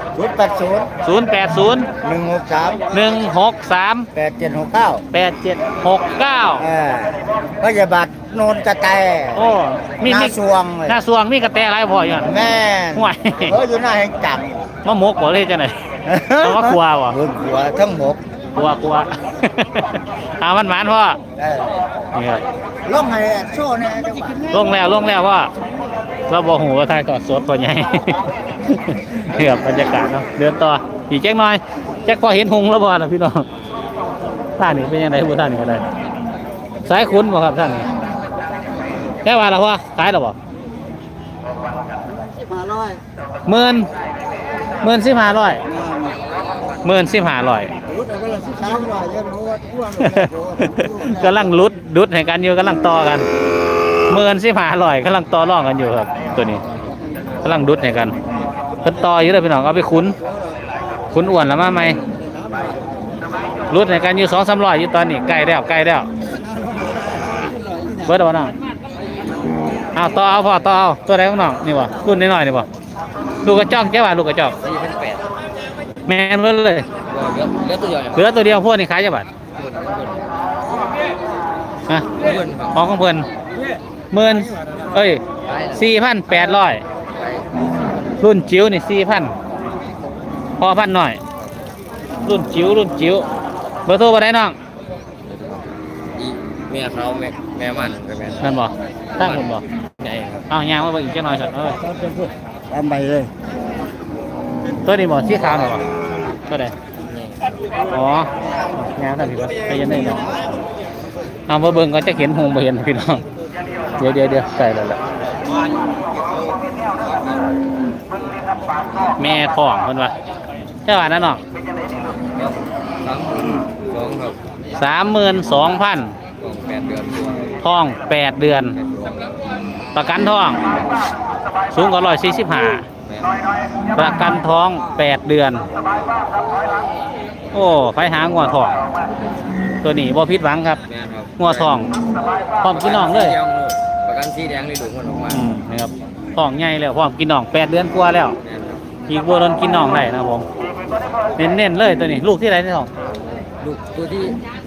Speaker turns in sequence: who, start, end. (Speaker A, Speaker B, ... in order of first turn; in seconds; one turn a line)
Speaker A: 0.1-0.9
Speaker B: 1.0-1.9
Speaker A: 2.0-2.9
Speaker B: 2.9-4.1
Speaker A: 4.1-5.0
Speaker B: 5.1-6.7
Speaker A: 6.6-9.5
Speaker B: 9.3-12.3
Speaker A: 10.0-11.0
Speaker A: 12.2-14.6
Speaker B: 12.9-13.6
Speaker B: 14.8-15.8
Speaker A: 16.1-18.2
Speaker B: 16.4-17.2
Speaker B: 18.5-21.2
Speaker A: 21.4-21.7
Speaker B: 22.1-22.4
Speaker A: 22.8-24.8
Speaker B: 24.5-25.5
Speaker B: 26.3-33.5
Speaker B: 34.6-35.8
Speaker B: 36.8-37.9
Speaker B: 39.2-40.4
Speaker A: 42.2-43.0
Speaker B: 43.5-43.9
Speaker B: 44.8-45.6
Speaker B: 46.8-47.7
Speaker A: 47.9-51.5
Speaker B: 50.0-53.3
Speaker B: 54.1-56.6
Speaker B: 57.4-58.1
Speaker B: 58.8-60.1
Speaker B: 61.1-62.0
Speaker B: 63.7-66.1
Speaker B: 68.0-68.5
Speaker B: 69.9-72.7
Speaker B: 73.4-74.5
Speaker C: 74.6-75.3
Speaker B: 76.1-76.9
Speaker C: 77.1-78.3
Speaker B: 78.1-79.3
Speaker C: 79.5-80.3
Speaker C: 82.1-82.8
Speaker B: 82.7-83.3
Speaker B: 84.1-85.2
Speaker C: 85.5-85.8
Speaker B: 85.7-86.8
Speaker C: 87.1-87.5
Speaker B: 88.2-89.3
Speaker B: 90.6-91.2
Speaker B: 92.2-93.2
Speaker B: 93.8-94.6
Speaker C: 95.2-98.5
Speaker B: 98.4-99.6
Speaker C: 99.2-99.5
Speaker C: 100.0-100.4
Speaker B: 100.5-101.8
Speaker A: 101.8-103.3
Speaker B: 104.8-105.8
Speaker B: 106.5-106.7
Speaker B: 107.9-110.3
Speaker B: 111.5-113.2
Speaker B: 114.0-115.0
Speaker B: 119.2-120.1
Speaker B: 120.8-121.4
Speaker C: 122.3-124.4
Speaker B: 124.8-126.2
Speaker C: 126.4-127.6
Speaker B: 127.6-128.8
Speaker C: 128.7-129.3
Speaker B: 129.9-130.6
Speaker B: 131.7-132.9
Speaker C: 133.1-133.4
Speaker B: 133.9-135.7
Speaker B: 137.5-138.8
Speaker B: 139.8-140.8
Speaker C: 140.9-141.7
Speaker B: 141.4-141.9
Speaker B: 142.6-143.4
Speaker C: 142.7-145.4
Speaker B: 145.3-148.3
Speaker C: 148.4-148.8
Speaker B: 149.1-150.4
Speaker B: 151.4-152.9
Speaker C: 153.6-154.4